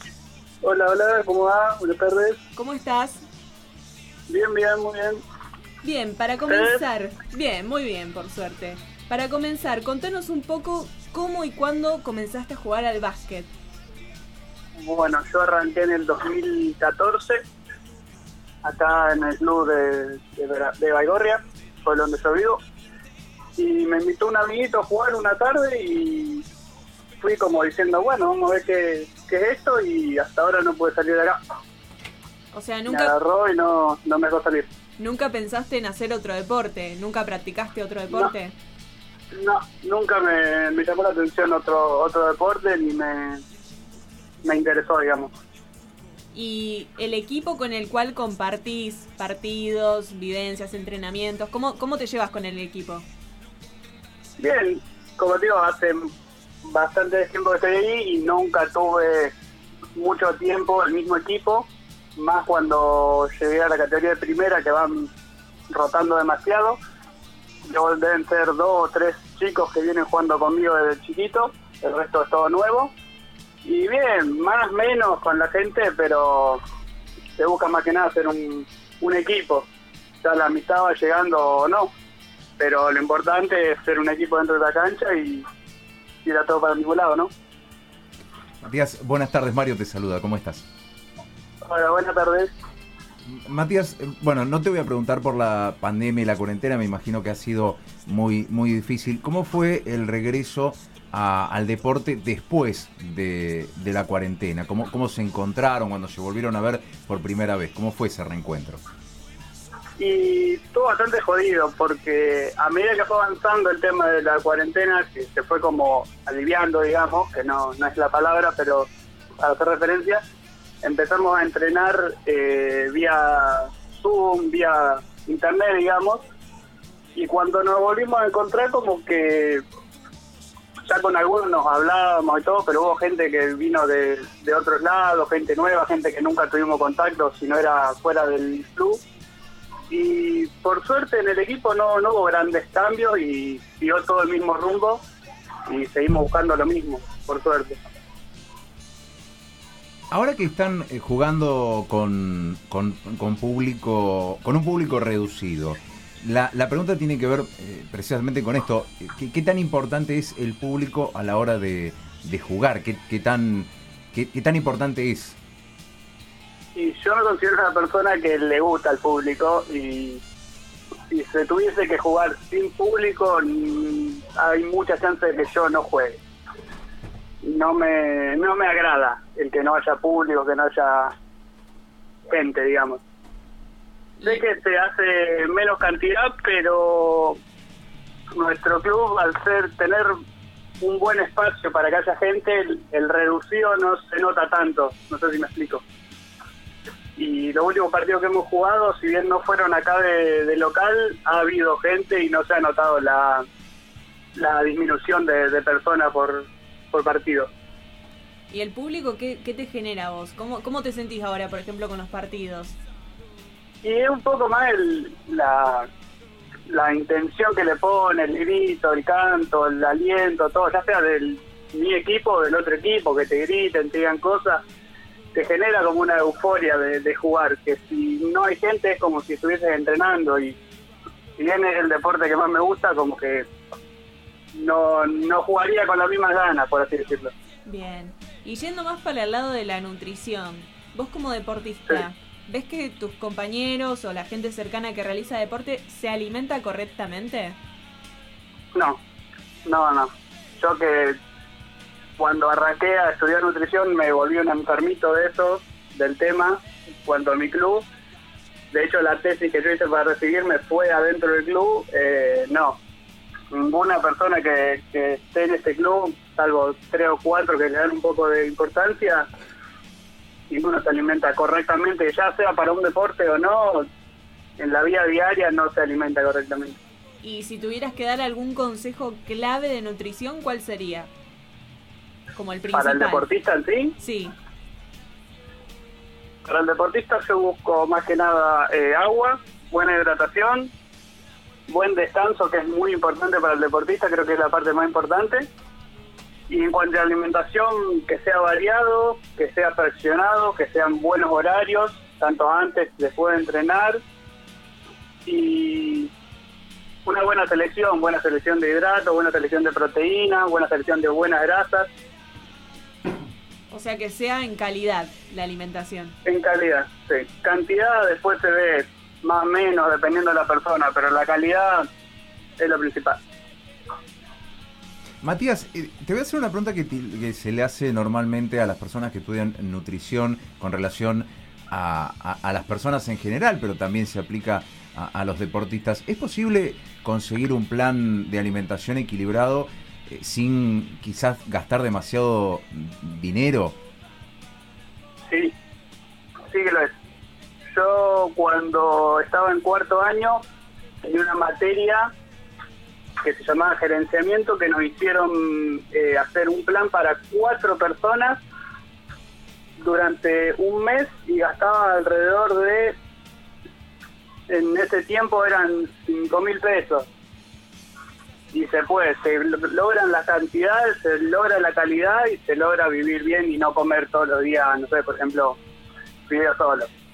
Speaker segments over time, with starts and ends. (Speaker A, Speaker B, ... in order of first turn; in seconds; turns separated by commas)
Speaker A: 0.6-2.4, Speaker B: 2.5-3.2, Speaker A: 4.3-5.2, Speaker B: 5.8-13.5, Speaker A: 6.5-6.8, Speaker A: 14.8-17.4, Speaker A: 18.6-22.6, Speaker A: 23.6-26.4, Speaker A: 27.2-31.4, Speaker B: 32.5-33.1, Speaker A: 32.9-34.7, Speaker B: 35.0-38.5, Speaker A: 39.4-43.4, Speaker A: 44.5-45.3, Speaker B: 46.3-53.1, Speaker A: 54.4-56.0, Speaker A: 56.7-59.3, Speaker A: 60.0-65.1, Speaker A: 65.7-66.8, Speaker A: 67.7-72.9, Speaker A: 73.7-76.6, Speaker A: 77.4-79.7, Speaker A: 80.2-81.9, Speaker A: 82.6-85.4, Speaker A: 86.2-87.3, Speaker C: 88.6-90.6, Speaker A: 91.6-92.5, Speaker C: 93.3-108.8, Speaker A: 110.0-118.9, Speaker A: 119.4-120.2, Speaker A: 120.8-126.2, Speaker A: 127.2-129.6, Speaker A: 130.9-139.0, Speaker A: 139.9-145.0, Speaker A: 145.7-147.8, Speaker C: 150.1-165.4, Speaker A: 166.8-170.2, Speaker A: 171.1-176.2, Speaker A: 177.4-181.1, Speaker A: 182.3-183.0, Speaker A: 184.2-187.4, Speaker A: 188.3-190.1, Speaker A: 190.8-195.8, Speaker A: 197.2-203.4, Speaker A: 204.4-207.5, Speaker B: 208.5-212.8, Speaker A: 213.8-215.9, Speaker A: 216.7-224.6, Speaker A: 225.3-230.6, Speaker A: 231.4-233.5, Speaker A: 234.6-237.3, Speaker B: 237.7-247.6, Speaker A: 249.7-251.2, Speaker A: 252.2-257.9, Speaker A: 258.7-262.8, Speaker A: 263.5-269.3, Speaker A: 270.5-273.9, Speaker A: 274.6-276.8, Speaker B: 277.2-281.1, Speaker B: 282.3-283.3, Speaker A: 282.7-283.9, Speaker B: 284.0-284.3, Speaker A: 286.5-290.7, Speaker A: 291.7-295.4, Speaker A: 296.5-304.0, Speaker A: 305.3-306.1, Speaker A: 307.1-311.9, Speaker B: 313.7-316.2, Speaker A: 316.2-321.9, Speaker A: 322.6-323.2, Speaker C: 325.2-343.8, Speaker A: 346.5-346.9, Speaker A: 347.7-350.4, Speaker A: 351.0-352.1, Speaker A: 353.2-358.4, Speaker A: 359.8-362.9, Speaker A: 364.5-367.1, Speaker A: 368.5-375.6, Speaker A: 376.3-376.9